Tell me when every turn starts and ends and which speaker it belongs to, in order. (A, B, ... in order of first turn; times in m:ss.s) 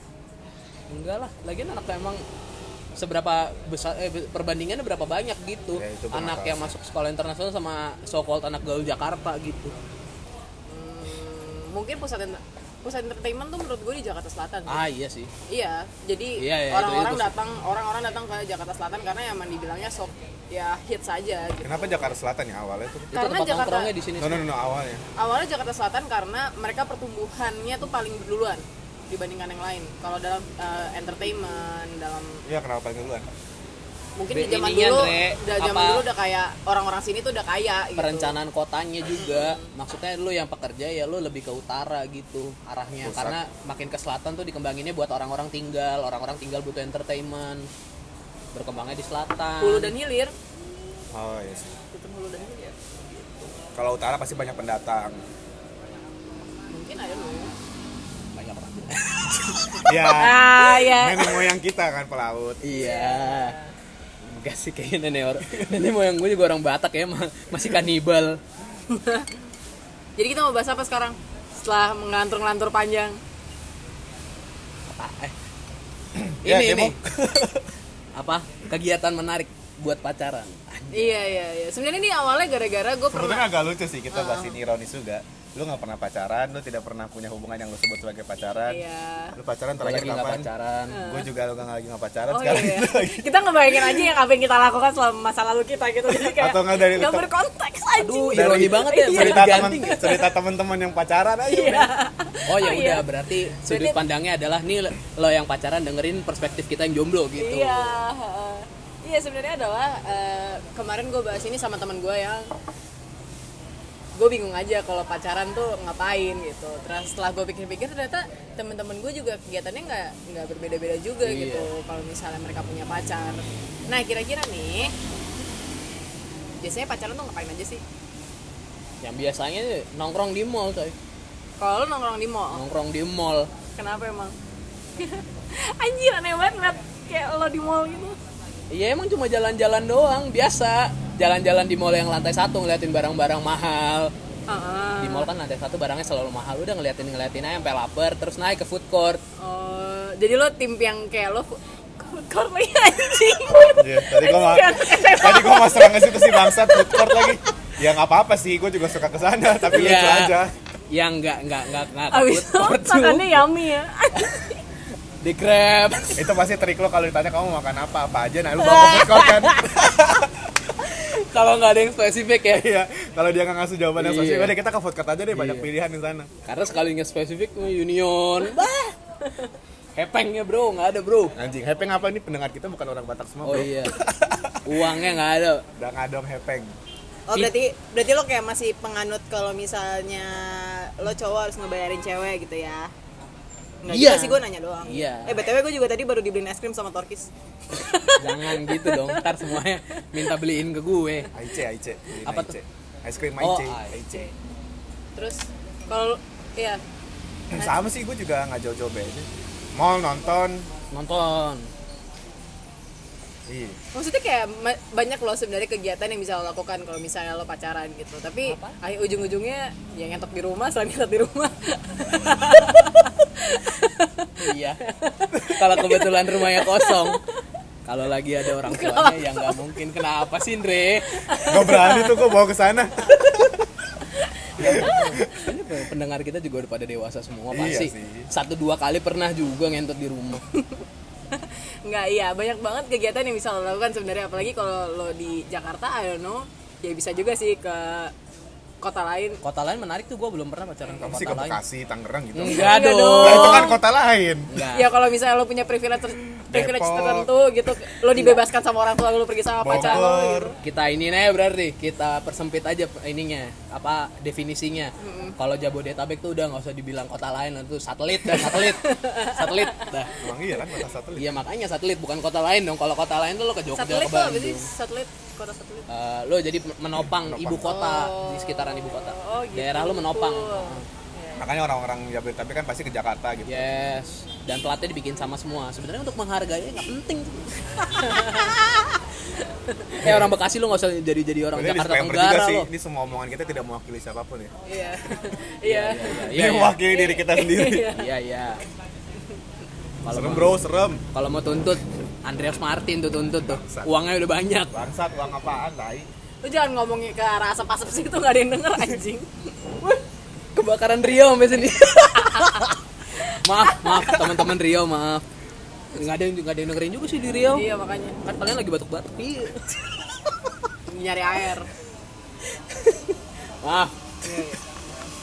0:00.9-0:02.2 A
0:03.0-0:09.7 A
0:05.8-0:06.7 B
0:10.7-0:14.8 C
0:14.7-0:15.3 A
0:15.5-0:22.1 C
0:16.4-0:17.3 A
0:21.6-0:23.1 B
0:23.1-0:23.9 C
0:23.1-0:24.4 A
0:24.2-0:25.0 B
0:25.2-0:32.4 C
0:32.4-0:33.3 B
0:34.2-0:38.3 C
0:34.3-0:36.0 A
0:38.0-0:47.7 A
0:39.2-0:39.7 C
0:43.0-0:43.4 B
0:48.5-0:49.9 A
0:49.6-0:50.3 C
0:51.1-0:51.8 B
0:51.9-0:52.7 C
0:53.7-0:55.2 B
0:56.7-0:57.5 C
0:58.3-1:00.0 A
0:59.8-1:02.6 B
1:00.0-1:01.5 C
1:02.6-1:03.6 A
1:02.8-1:03.7 C
1:04.2-1:08.4 A
1:05.4-1:05.7 B
1:08.9-1:09.3 C
1:10.2-1:13.2 C
1:14.9-1:15.3 A
1:16.1-1:17.7 B
1:16.4-1:17.0 A
1:18.2-1:21.2 A
1:20.9-1:23.5 C
1:23.1-1:28.8 B
1:24.1-1:24.6 C
1:28.7-1:29.3 C
1:29.3-1:33.3 B
1:29.8-1:31.0 A
1:30.9-1:31.3 C
1:32.3-1:40.1 C
1:36.1-1:37.3 B
1:38.0-1:40.2 A
1:38.3-1:41.9 B
1:41.5-1:43.0 C
1:42.5-1:47.9 A
1:43.6-1:44.0 C
1:47.4-1:52.5 C
1:54.2-2:04.9 C
2:01.2-2:01.7 A
2:06.6-2:07.8 C
2:09.0-2:10.9 A
2:11.6-2:12.6 C
2:12.5-2:13.5 A
2:13.8-2:14.4 C
2:15.0-2:18.2 C
2:18.7-2:24.1 A
2:24.5-2:25.3 C
2:25.0-2:29.2 A
2:29.4-2:37.4 C
2:33.7-2:40.5 B
2:39.7-2:40.4 A
2:40.9-2:43.5 A
2:42.1-2:44.6 C
2:45.2-2:46.2 A
2:46.2-2:50.5 B
2:48.6-2:49.7 A
2:50.8-2:52.7 A
2:52.5-2:56.3 B
2:54.0-2:54.5 A
2:55.3-2:55.7 A
2:56.4-2:59.0 A
3:00.0-3:01.3 A
3:01.4-3:04.9 B
3:03.4-3:04.0 A
3:04.6-3:05.6 A
3:05.8-3:06.7 B
3:07.3-3:12.9 C
3:13.8-3:19.5 C
3:13.9-3:15.4 A
3:18.2-3:21.3 A
3:21.3-3:24.3 B
3:22.2-3:22.6 A
3:23.4-3:24.0 A
3:25.2-3:26.8 C
3:27.5-3:30.7 B
3:30.9-3:31.7 A
3:33.5-3:33.8 B
3:33.9-3:47.2 C
3:38.5-3:38.8 A
3:44.4-3:44.8 A
3:45.4-3:47.2 A
3:47.8-3:51.3 A
3:48.6-3:49.6 C
3:51.3-3:52.3 C
3:51.5-3:53.7 B
3:54.2-3:55.3 C
3:54.6-3:55.3 B
3:54.6-4:00.4 A
3:57.5-3:58.3 B
4:00.5-4:08.1 C
4:08.8-4:09.4 C
4:09.4-4:11.6 A
4:11.0-4:14.5 B
4:12.3-4:13.7 A
4:12.4-4:13.8 C
4:14.5-4:14.9 A
4:14.7-4:20.6 C
4:16.5-4:17.3 B
4:19.6-4:20.6 B
4:19.7-4:20.0 A
4:20.6-4:30.1 A
4:25.0-4:25.4 C
4:28.2-4:29.9 C
4:30.2-4:31.3 B
4:31.2-4:34.7 A
4:33.8-4:35.9 C
4:35.9-4:40.8 A
4:37.0-4:37.7 B
4:37.6-4:41.5 C
4:41.4-4:43.7 B
4:43.5-4:48.0 A
4:47.8-4:49.9 C
4:50.0-4:52.7 A
4:50.0-4:50.3 B
4:51.5-4:54.5 B
4:54.6-4:56.2 C
4:55.6-4:56.8 A
4:56.3-4:57.9 B
4:56.8-4:58.1 C
4:57.9-4:58.6 A
5:00.0-5:00.6 A
5:00.1-5:01.0 B
5:01.1-5:04.7 A
5:03.4-5:03.9 B
5:04.7-5:06.1 B
5:06.4-5:09.4 C
5:10.5-5:12.7 A
5:11.8-5:12.7 C
5:13.3-5:15.2 A
5:13.7-5:14.3 C
5:15.9-5:17.6 A
5:17.5-5:18.3 C
5:18.2-5:19.8 A
5:20.9-5:21.7 C
5:22.5-5:23.9 A
5:24.2-5:24.6 C